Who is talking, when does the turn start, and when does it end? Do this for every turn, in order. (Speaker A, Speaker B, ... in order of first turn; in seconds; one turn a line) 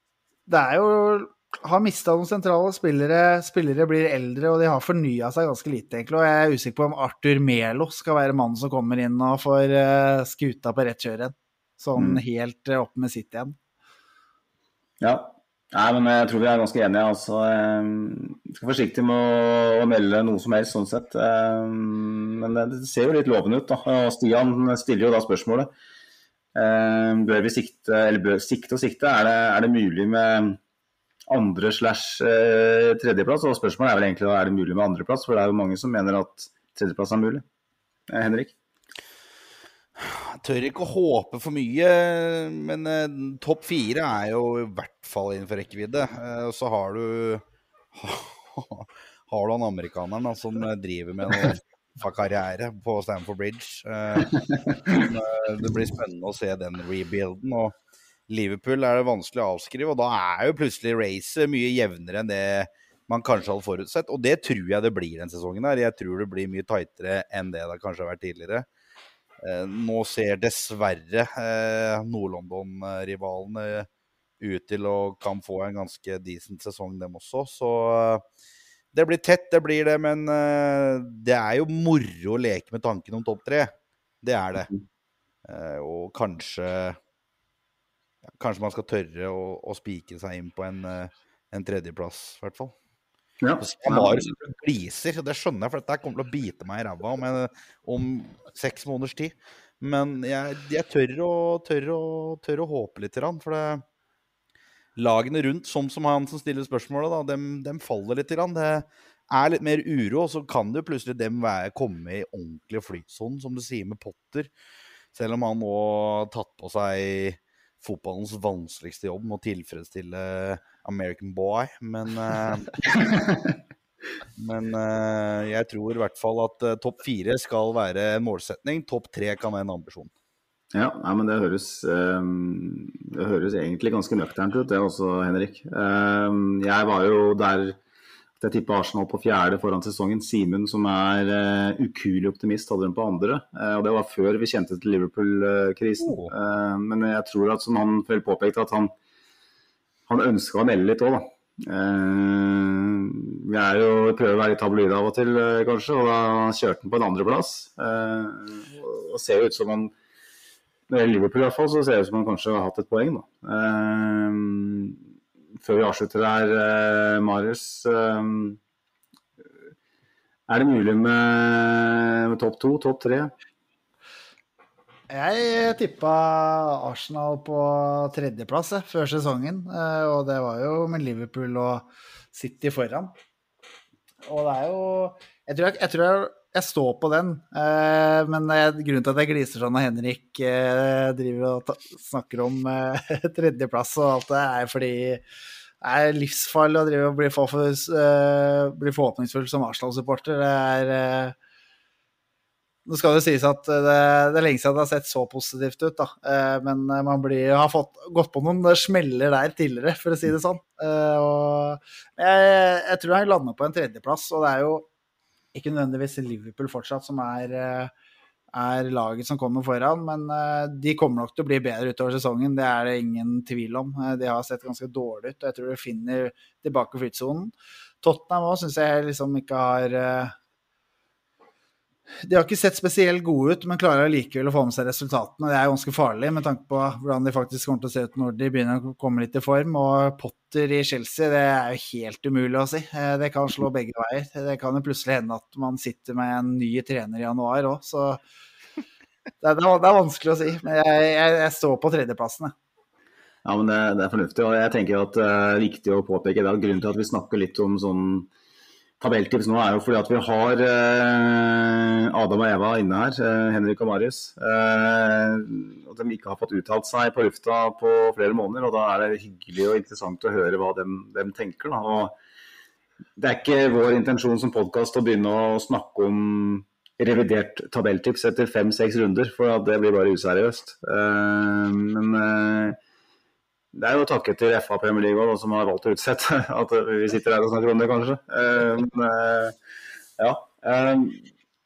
Speaker A: 0.5-13.6
Speaker B: 12.0-12.2
Speaker B: 15.0-25.7
Speaker B: 26.5-30.6
Speaker B: 31.3-37.4
Speaker B: 38.1-38.5
Speaker C: 40.0-57.7
Speaker C: 58.3-68.7
Speaker C: 69.4-73.9
Speaker C: 74.4-78.2
Speaker C: 78.9-84.7
Speaker C: 85.5-87.0
Speaker C: 88.4-92.7
Speaker B: 93.4-94.3
Speaker C: 93.6-103.8
Speaker C: 105.0-114.5
Speaker C: 115.1-122.9
Speaker B: 122.9-123.5
Speaker C: 124.4-130.1
Speaker B: 130.7-137.8
Speaker B: 138.4-148.9
Speaker C: 146.0-146.3
Speaker B: 150.1-159.9
Speaker B: 160.9-165.0
Speaker B: 165.6-168.6
Speaker B: 170.5-173.3
Speaker A: 175.1-183.1
Speaker A: 184.2-195.2
Speaker A: 195.8-201.3
Speaker A: 202.8-214.9
Speaker A: 215.5-217.9
Speaker A: 218.5-230.3
Speaker A: 232.2-248.2
Speaker A: 249.4-252.5
Speaker B: 253.4-258.3
Speaker B: 259.0-272.1
Speaker B: 273.2-282.8
Speaker B: 283.7-289.5
Speaker B: 290.2-291.2